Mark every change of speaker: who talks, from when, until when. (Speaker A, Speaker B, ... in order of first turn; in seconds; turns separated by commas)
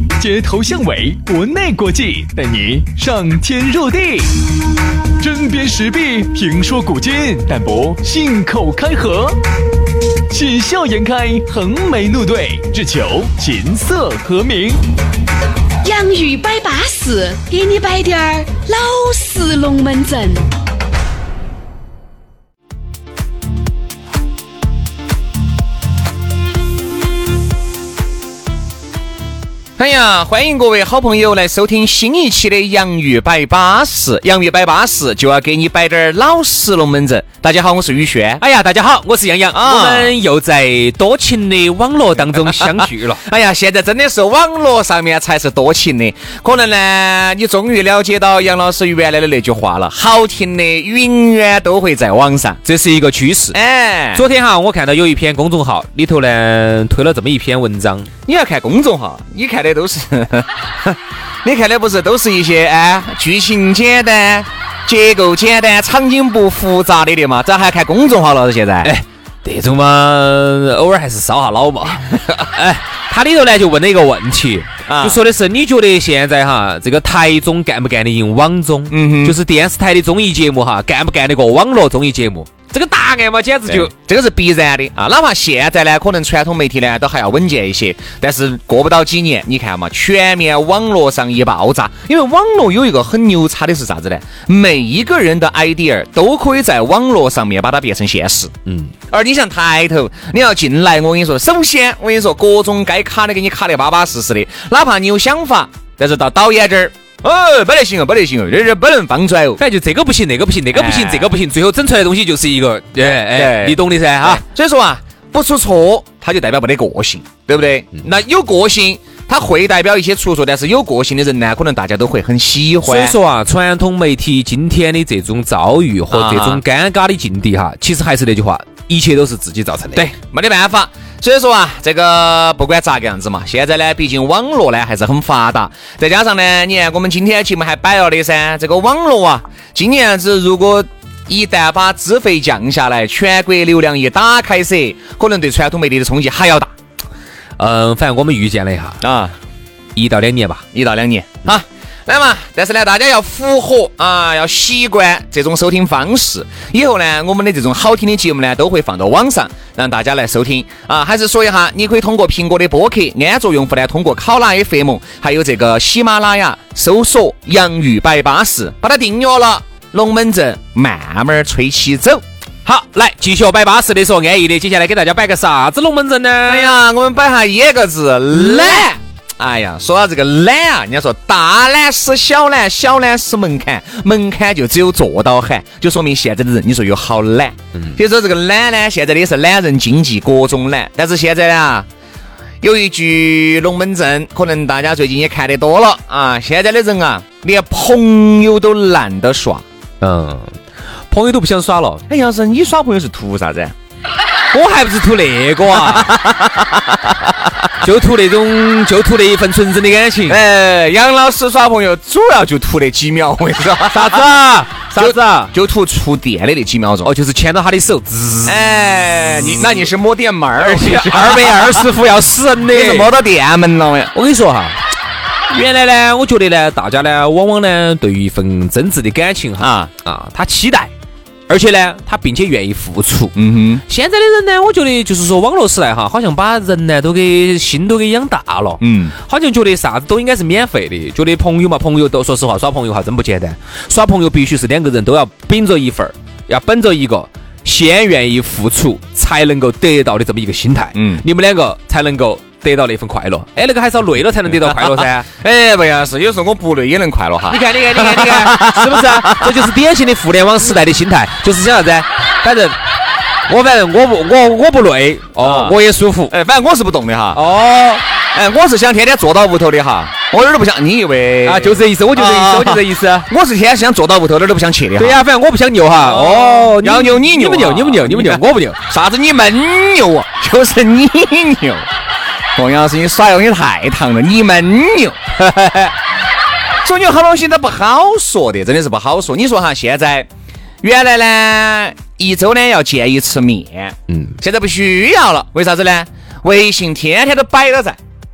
Speaker A: 0.2-4.3, Speaker A: 5.2-9.4, Speaker A: 10.3-14.8, Speaker B: 15.8-20.5, Speaker C: 29.8-38.4, Speaker D: 38.4-43.2, Speaker C: 39.5-40.1, Speaker C: 42.4-52.6, Speaker D: 52.6-53.6, Speaker C: 53.5-54.2, Speaker D: 54.1-58.1, Speaker C: 58.3-68.9, Speaker D: 68.8-83.9, Speaker C: 74.9-75.2, Speaker C: 78.9-79.4, Speaker C: 83.7-98.5, Speaker D: 98.7-98.9, Speaker C: 99.1-109.6, Speaker D: 109.6-114.4, Speaker C: 110.7-111.3, Speaker C: 113.2-123.2, Speaker D: 122.8-130.1, Speaker C: 126.1-126.6, Speaker C: 129.9-146.7, Speaker D: 147.6-149.0, Speaker C: 149.0-149.3, Speaker D: 150.0-150.6, Speaker C: 150.7-172.2, Speaker D: 172.7-176.7, Speaker C: 176.5-191.9, Speaker D: 178.3-178.9, Speaker C: 192.6-199.6, Speaker D: 200.0-202.0, Speaker C: 202.1-203.8, Speaker D: 204.5-206.2, Speaker C: 205.7-207.5, Speaker D: 207.8-210.4, Speaker C: 210.3-214.3, Speaker D: 213.9-215.5, Speaker C: 215.0-217.1, Speaker D: 217.0-218.6, Speaker C: 218.4-221.9, Speaker D: 220.6-223.1, Speaker C: 222.7-224.1, Speaker D: 224.1-224.8, Speaker D: 225.5-230.9, Speaker C: 229.6-229.9, Speaker D: 231.5-233.3, Speaker C: 233.3-233.8, Speaker D: 233.9-255.3, Speaker C: 238.8-239.2, Speaker C: 250.9-251.2, Speaker C: 254.6-259.7, Speaker D: 257.5-262.8, Speaker D: 263.5-266.3, Speaker C: 265.4-265.8, Speaker C: 266.3-267.4, Speaker D: 267.3-268.0, Speaker C: 268.3-275.2, Speaker D: 271.4-273.3, Speaker D: 275.0-278.8, Speaker C: 276.0-281.9, Speaker C: 282.6-285.2, Speaker D: 285.4-285.9, Speaker C: 286.8-290.3, Speaker C: 290.8-298.0, Speaker D: 294.1-294.3